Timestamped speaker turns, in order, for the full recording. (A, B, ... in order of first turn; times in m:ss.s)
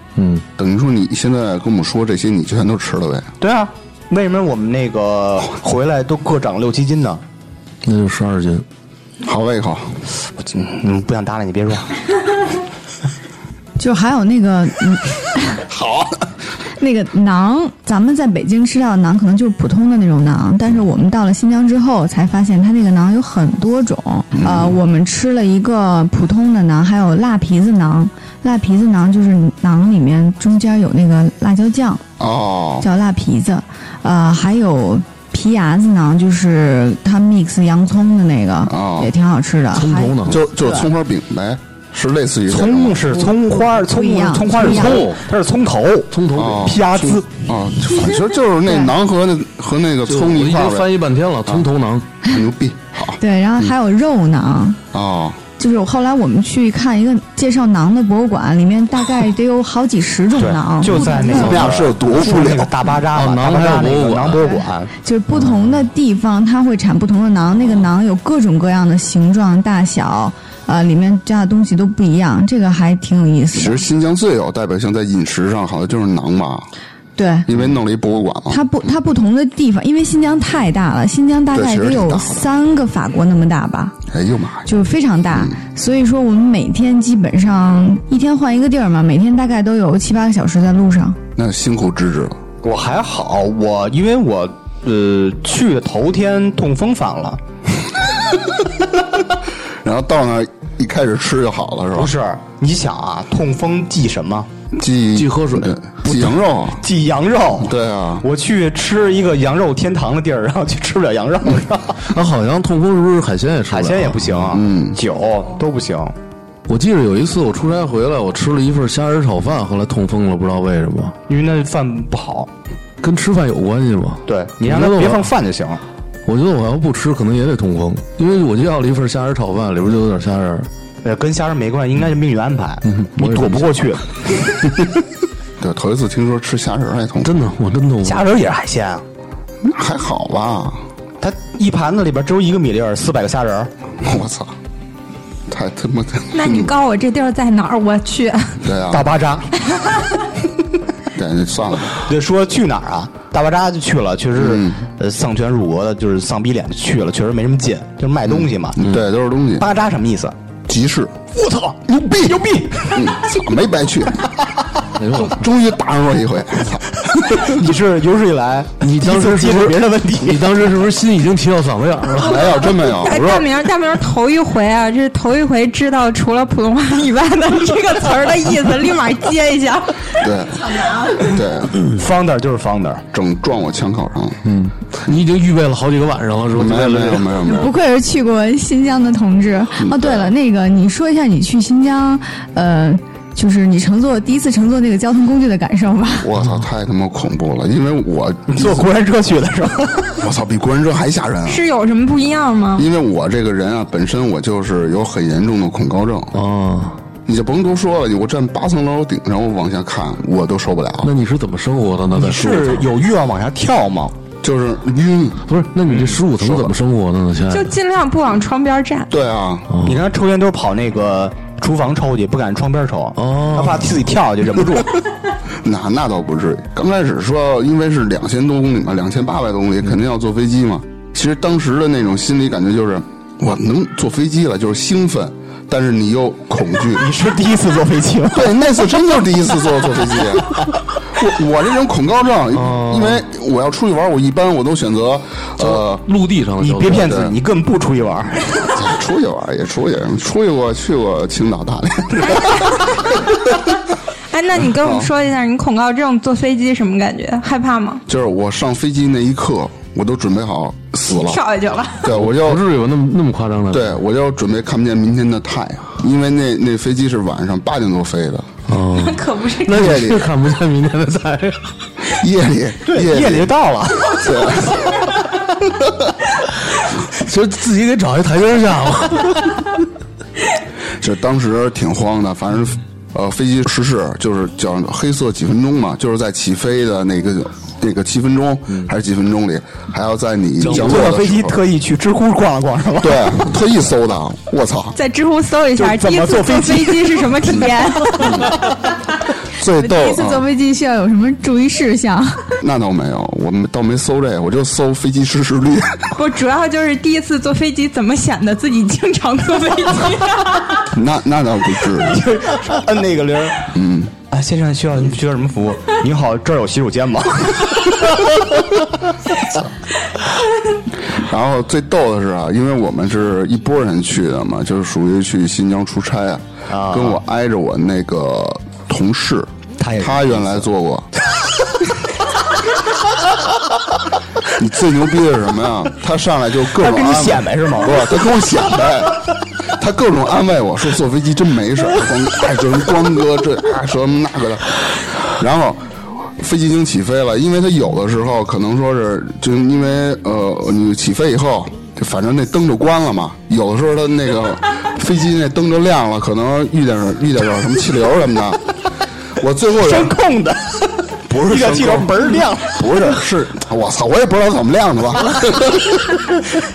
0:00.2-0:00.4 A
0:00.6-0:03.3 B
0:03.4-0:07.2 C
0:07.8-0:08.6 A
0:09.2-0:10.0 B
0:10.4-0:12.0 C
0:13.8-0:15.6 D
0:15.7-0:16.1 B
0:16.8-0:32.0 D
0:24.3-0:24.8 B
0:32.2-0:32.9 B
0:32.8-0:40.9 D
0:38.7-0:39.1 B
0:39.7-0:40.4 A
0:40.2-0:43.2 B
0:42.5-0:47.3 C
0:43.8-0:45.1 D
0:44.5-0:45.2 A
0:46.1-0:46.7 A
0:46.3-0:50.9 B
0:48.6-0:48.9 D
0:50.1-0:52.1 A
0:52.3-0:53.7 B
0:53.2-0:54.8 D
0:54.9-0:55.4 B
0:55.6-1:01.6 D
1:00.4-1:04.9 C
1:01.2-1:02.8 B
1:03.1-1:04.4 A
1:04.4-1:13.8 D
1:13.5-1:16.7 B
1:17.2-1:17.5 D
1:17.5-1:18.6 B
1:18.5-1:24.0 D
1:21.5-1:22.5 B
1:24.1-1:24.7 B
1:24.6-1:31.2 D
1:31.4-1:32.4 B
1:32.6-1:37.4 C
1:39.8-1:42.1 B
1:41.9-1:44.5 C
1:44.7-1:46.8 B
1:45.1-1:45.8 A
1:46.1-1:52.0 C
1:47.6-1:48.2 B
1:52.0-1:54.6 A
1:53.7-1:56.1 C
1:54.5-1:55.0 B
1:56.7-2:01.1 A
2:01.3-2:02.5 C
2:03.0-2:05.2 A
2:04.3-2:05.8 C
2:06.2-2:10.7 A
2:11.0-2:14.7 C
2:12.8-2:13.7 A
2:15.6-2:17.5 B
2:17.2-2:18.3 A
2:18.0-2:19.0 C
2:19.6-2:20.8 B
2:21.2-2:23.7 C
2:24.0-2:24.5 B
2:25.5-2:26.7 B
2:26.3-2:28.6 E
2:28.6-2:29.1 B
2:28.9-2:29.5 C
2:29.6-2:30.1 E
2:31.1-2:32.0 B
2:32.0-2:38.8 C
2:34.4-2:34.8 B
2:38.3-2:39.6 B
2:39.6-2:40.3 C
2:40.7-2:41.2 B
2:41.3-2:43.3 C
2:42.0-2:44.3 B
2:45.0-2:45.4 A
2:45.2-2:47.6 B
2:47.1-2:50.5 C
2:48.8-2:52.5 A
2:52.1-2:53.5 B
2:52.9-3:00.2 E
3:00.1-3:01.8 B
3:01.2-3:03.0 C
3:03.1-3:04.4 B
3:04.4-3:07.5 A
3:06.5-3:07.7 B
3:07.4-3:16.3 D
3:09.8-3:10.3 B
3:16.2-3:18.8 B
3:18.5-3:20.2 C
3:20.2-3:21.6 B
3:21.5-3:22.9 E
3:22.8-3:26.4 B
3:26.3-3:27.0 A
3:27.2-3:31.1 B
3:31.0-3:32.9 A
3:32.1-3:34.1 C
3:34.4-3:35.5 B
3:35.5-3:37.8 A
3:35.9-3:36.2 C
3:36.3-3:36.8 B
3:37.5-3:39.1 E
3:39.1-3:39.7 B
3:39.7-3:40.0 A
3:39.8-3:45.0 C
3:43.2-3:44.0 A
3:45.6-3:57.1 B
3:56.9-3:58.8 C
3:58.3-4:00.5 B
4:00.0-4:00.6 C
4:01.2-4:06.0 B
4:02.5-4:03.2 A
4:05.6-4:07.2 A
4:06.6-4:08.8 C
4:06.9-4:07.4 B
4:08.7-4:12.7 B
4:14.3-4:18.0 E
4:14.8-4:15.1 B
4:18.1-4:21.4 B
4:21.1-4:22.0 E
4:22.0-4:22.6 B
4:22.1-4:24.0 A
4:23.7-4:28.5 B
4:28.7-4:31.7 A
4:29.0-4:29.9 E
4:29.7-4:30.3 B
4:32.1-4:33.5 B
4:32.8-4:34.8 C
4:34.2-4:34.9 B
4:37.1-4:39.7 A
4:41.0-4:51.5 B
4:50.6-4:53.6 C
4:50.6-4:51.5 A
4:53.0-4:55.0 B
4:54.9-4:58.5 E
4:55.8-4:58.7 C
4:58.2-4:58.6 B
4:59.5-5:00.4 B
4:59.8-5:02.5 D
5:02.6-5:06.1 B
5:06.1-5:10.8 E
5:10.8-5:12.2 B
5:12.0-5:13.7 C
5:13.7-5:14.1 B
5:14.3-5:19.6 C
5:21.1-5:31.1 B
5:26.7-5:27.2 C
5:29.8-5:30.7 C
5:31.3-5:31.9 C
5:34.5-5:45.8 B
5:36.8-5:38.2 C
5:46.4-5:58.6 B
5:59.4-6:00.1 B
5:59.8-6:03.2 C
6:01.3-6:06.4 B